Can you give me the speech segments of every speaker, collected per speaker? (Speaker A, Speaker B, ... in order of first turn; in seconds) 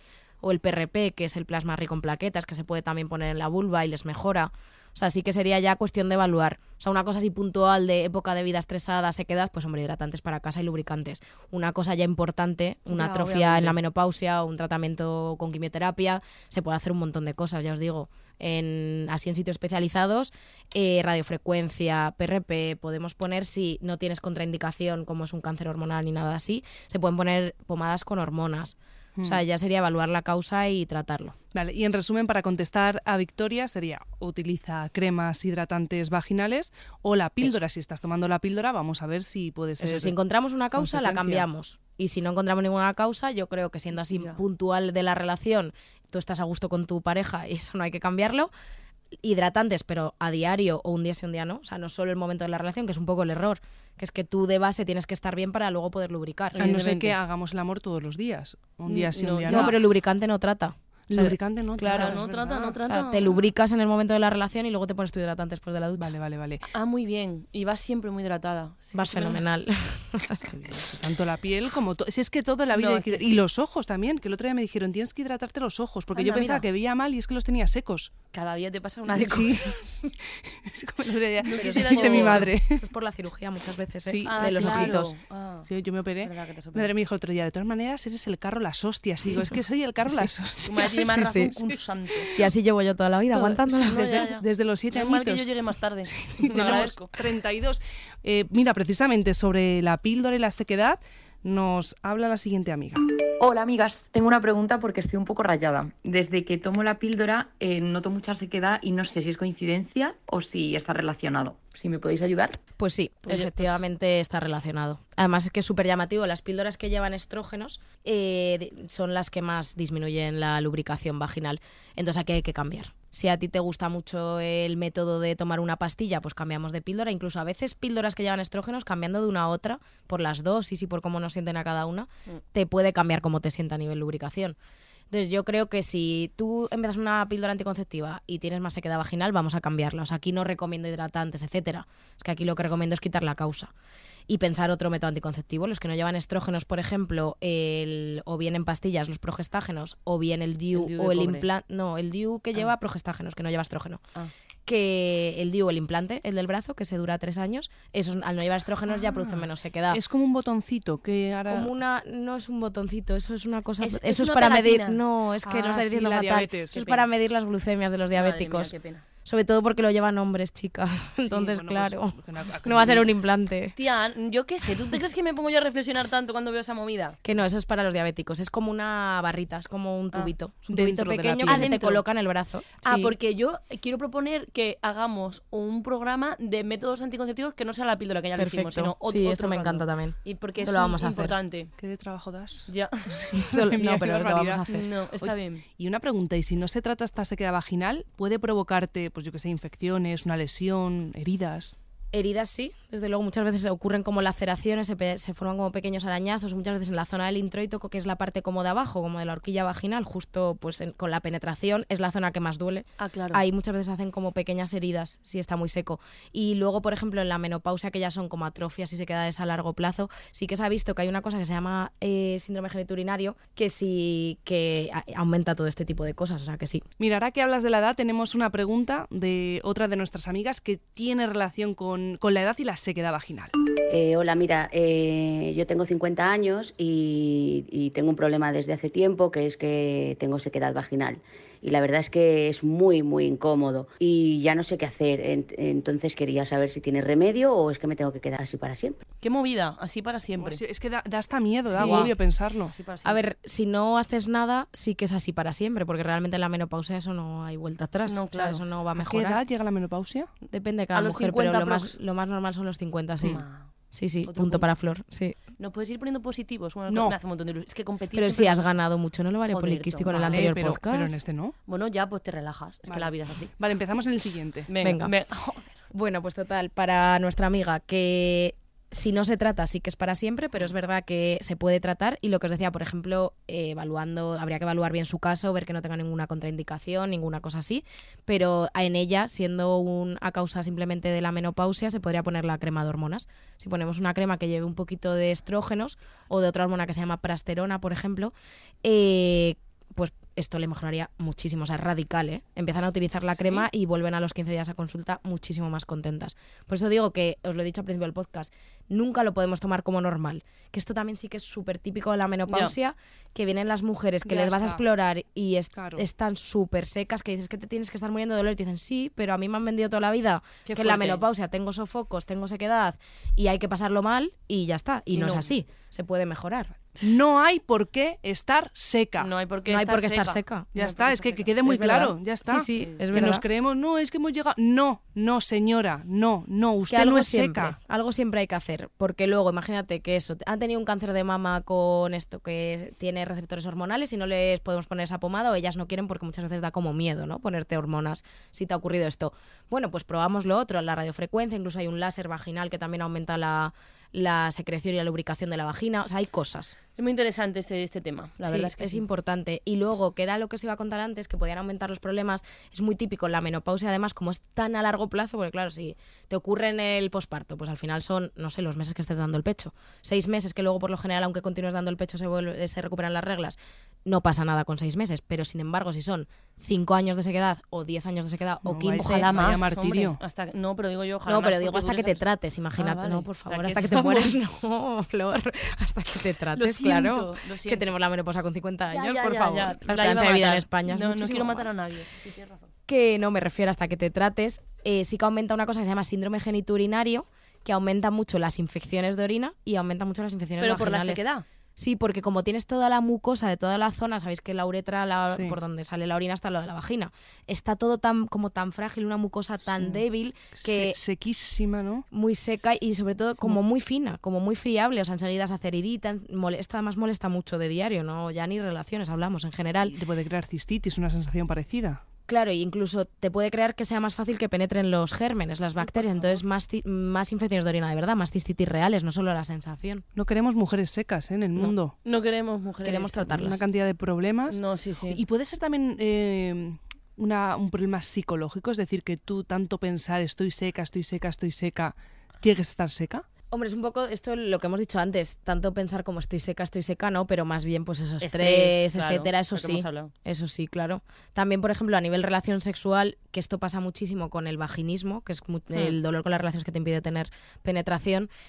Speaker A: 0.4-31.4, 39.8-48.5, 49.2-56.6, 59.5-62.2, 62.8-66.1, 68.9-70.8, 81.6-85.1, 91.1-91.5, 92.4-94.3, 112.8-134.6, 135.1-143.7, 144.3-154.0, 154.7-160.0, 161.5-168.7, 169.2-173.8, 177.2-183.2, 188.4-191.4, 193.3-194.9, 202.1-226.8, 251.7-252.1, 253.0-259.4, 260.5-265.4, 268.1-271.2, 274.8-275.1, 275.9-326.8, 329.7-330.7, 331.6-333.4, 336.9-356.8, 358.4-379.4, 381.3-391.7, 392.9-401.2, 401.8-411.0, 412.1-420.0, 422.3-430.0, 432.8-433.6, 443.5-458.3
Speaker B: 12.9-13.8, 56.5-57.2, 58.9-59.8, 61.9-63.3, 66.7-69.4, 72.7-73.4, 76.2-76.6, 78.3-79.7, 81.4-82.5, 84.2-85.7, 86.2-86.9, 90.6-92.3, 93.3-97.1, 150.7-151.5, 163.8-165.0, 166.7-167.1, 168.1-169.0, 173.8-177.2, 181.5-182.0, 182.8-191.7, 192.7-193.3, 194.7-195.6, 213.0-213.4, 249.2-250.6, 251.7-252.2, 252.7-253.2, 258.1-258.6, 260.9-262.0, 263.2-263.7, 264.2-264.7, 265.6-268.7, 269.5-270.6, 271.7-273.5, 274.7-275.8, 312.5-312.8, 320.7-321.2, 325.1-325.5, 329.2-331.5, 332.8-333.3, 357.0-359.0, 379.0-382.2, 382.8-384.4, 386.5-387.9, 388.9-392.7, 400.6-401.4, 432.1-433.3, 434.5-435.2, 448.2-450.1
Speaker C: 29.2-29.4, 31.5-40.2, 40.8-41.5, 56.6-59.8, 61.1-62.8, 66.0-66.7, 70.7-78.1, 79.1-82.8, 84.1-85.0, 85.7-91.2, 93.8-95.5, 96.1-103.0, 158.9-161.7, 165.4-166.8, 171.2-173.1, 180.7-181.7, 191.8-194.6, 195.2-201.8, 227.0-233.5, 250.4-252.7, 259.0-260.3, 266.9-267.2, 270.1-271.6, 272.9-274.7, 314.2-314.8, 315.8-316.1, 327.0-329.3, 330.8-337.8, 378.6-380.2, 405.3-405.6, 410.6-412.1, 419.9-422.0, 425.9-426.4, 430.1-431.9, 433.3-434.6, 435.1-443.3
Speaker D: 103.4-112.6
Speaker E: 233.9-249.0